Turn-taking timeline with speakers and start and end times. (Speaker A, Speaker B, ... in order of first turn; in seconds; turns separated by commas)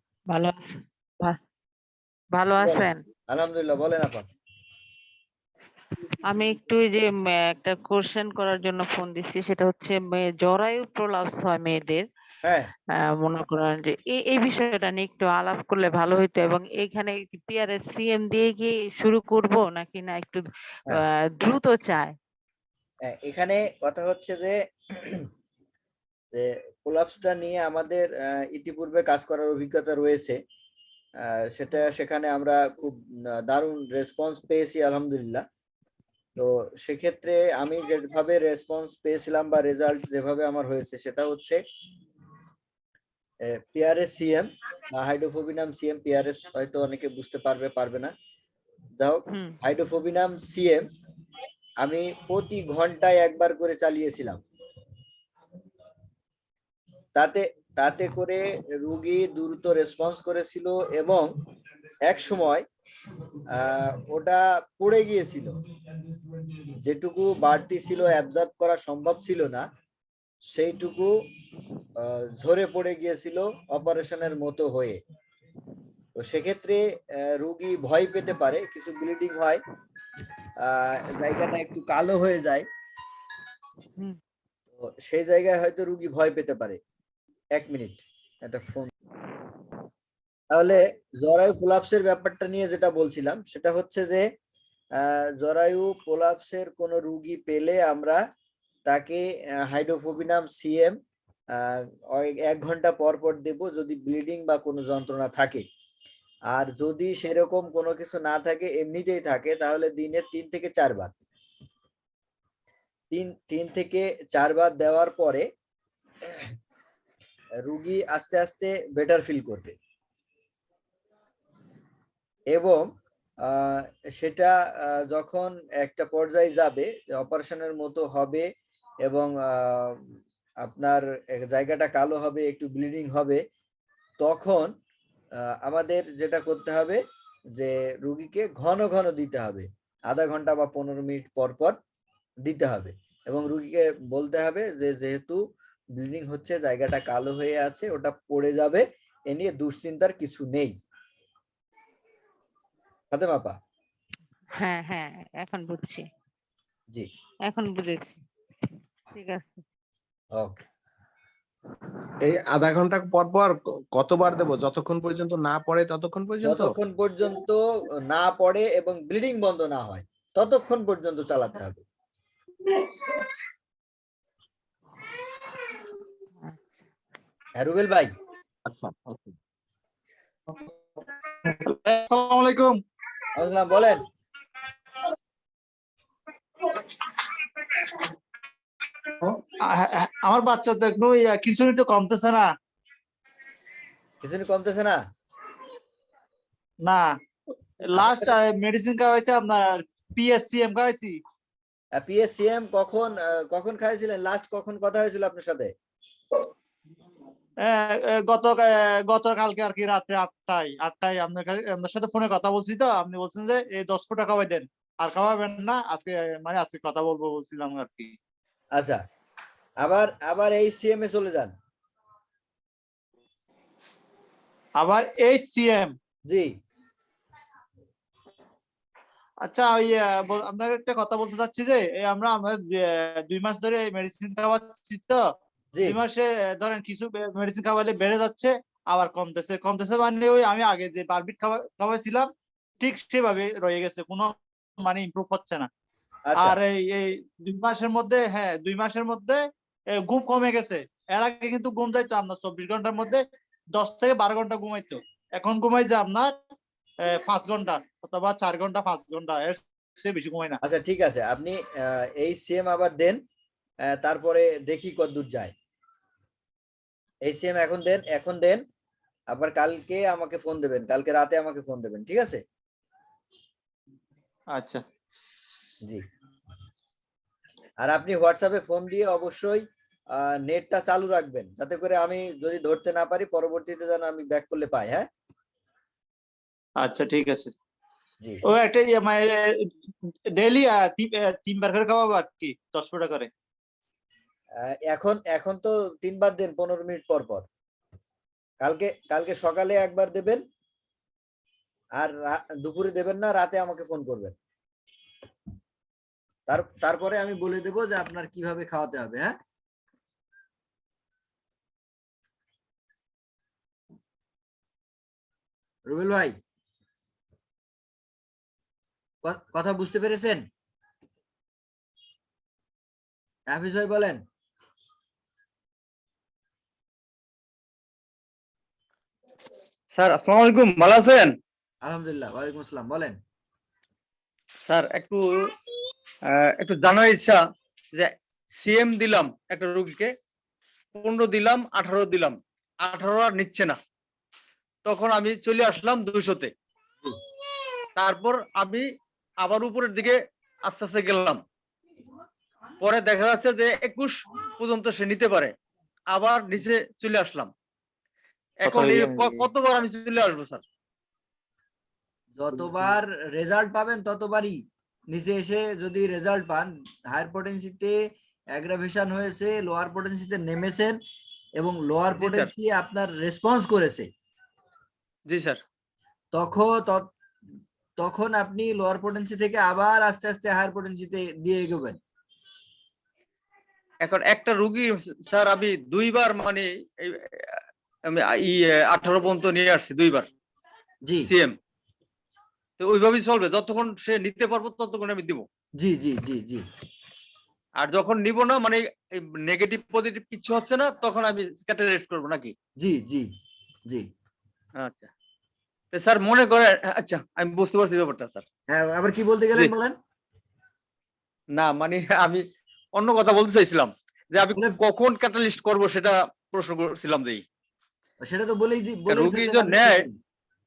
Speaker A: 0.3-1.4, Speaker A: 2.4-3.0, Speaker B: 2.6-4.3, Speaker A: 6.3-12.1, Speaker A: 13.2-22.2, Speaker B: 23.1-25.3, Speaker B: 26.4-30.4, Speaker B: 31.2-35.4, Speaker B: 36.4-41.6, Speaker B: 43.5-48.1, Speaker B: 49.0-50.9, Speaker A: 49.3-49.6, Speaker B: 51.8-54.4, Speaker B: 57.1-61.3, Speaker B: 62.0-62.7, Speaker B: 63.5-65.6, Speaker B: 66.8-69.7, Speaker B: 70.5-71.2, Speaker B: 72.0-75.0, Speaker B: 76.2-79.6, Speaker B: 80.6-82.7, Speaker B: 84.8-86.8, Speaker B: 87.5-88.9, Speaker B: 90.5-94.3, Speaker B: 95.0-98.2, Speaker B: 98.9-101.0, Speaker B: 101.5-105.7, Speaker B: 106.5-111.1, Speaker B: 113.1-115.5, Speaker B: 117.6-119.8, Speaker B: 122.5-122.9, Speaker B: 123.4-128.5, Speaker B: 129.1-130.0, Speaker B: 130.6-133.4, Speaker B: 134.2-134.7, Speaker B: 135.4-137.0, Speaker B: 137.6-141.8, Speaker B: 142.4-145.4, Speaker B: 146.0-150.8, Speaker B: 153.1-153.6, Speaker A: 154.6-156.1, Speaker A: 157.4-158.2, Speaker A: 159.1-159.6, Speaker B: 160.4-160.6, Speaker C: 162.2-166.8, Speaker B: 166.4-171.8, Speaker B: 177.6-178.1, Speaker C: 178.7-179.3, Speaker D: 180.5-182.8, Speaker B: 183.3-184.1, Speaker D: 189.2-192.5, Speaker B: 194.2-195.0, Speaker D: 196.8-197.1, Speaker D: 197.8-201.2, Speaker B: 197.9-198.3, Speaker B: 202.0-205.7, Speaker D: 207.6-218.2, Speaker B: 218.8-219.0, Speaker B: 219.8-221.5, Speaker D: 224.8-225.9, Speaker D: 229.4-235.2, Speaker D: 235.8-242.3, Speaker D: 242.8-245.7, Speaker B: 246.3-246.6, Speaker D: 246.4-249.4, Speaker D: 249.9-253.2, Speaker D: 253.8-256.3, Speaker D: 257.0-260.6, Speaker B: 260.6-263.2, Speaker B: 263.9-265.5, Speaker B: 267.3-268.6, Speaker B: 269.3-272.4, Speaker D: 274.5-274.8, Speaker B: 277.8-285.1, Speaker D: 286.8-287.5, Speaker D: 288.4-289.7, Speaker D: 290.4-293.3, Speaker B: 294.6-297.5, Speaker B: 298.6-300.4, Speaker B: 302.0-304.4, Speaker B: 306.5-309.4, Speaker B: 315.9-316.4, Speaker B: 319.2-320.5, Speaker B: 323.5-324.2, Speaker E: 329.9-331.4, Speaker B: 331.8-333.2, Speaker E: 334.7-335.4, Speaker E: 336.3-337.4, Speaker E: 337.9-340.1, Speaker E: 341.0-343.8, Speaker E: 344.9-346.5, Speaker E: 348.0-348.9, Speaker E: 349.4-351.4, Speaker E: 352.8-355.5, Speaker E: 356.1-357.5, Speaker E: 358.6-360.6, Speaker D: 358.7-359.4, Speaker B: 362.4-364.6, Speaker B: 365.1-368.0, Speaker B: 368.6-371.0, Speaker B: 371.6-374.1, Speaker E: 372.2-372.5, Speaker E: 375.3-375.6, Speaker B: 376.3-377.1, Speaker B: 378.0-382.0, Speaker E: 384.0-390.3, Speaker B: 391.1-391.3, Speaker E: 391.3-391.6, Speaker E: 392.8-395.5, Speaker B: 395.8-396.6, Speaker E: 397.8-402.5, Speaker B: 402.8-403.3, Speaker E: 404.8-405.1, Speaker E: 405.9-408.4, Speaker B: 408.7-410.0, Speaker E: 411.6-412.4, Speaker E: 413.0-417.4, Speaker B: 418.2-420.2, Speaker E: 419.1-420.0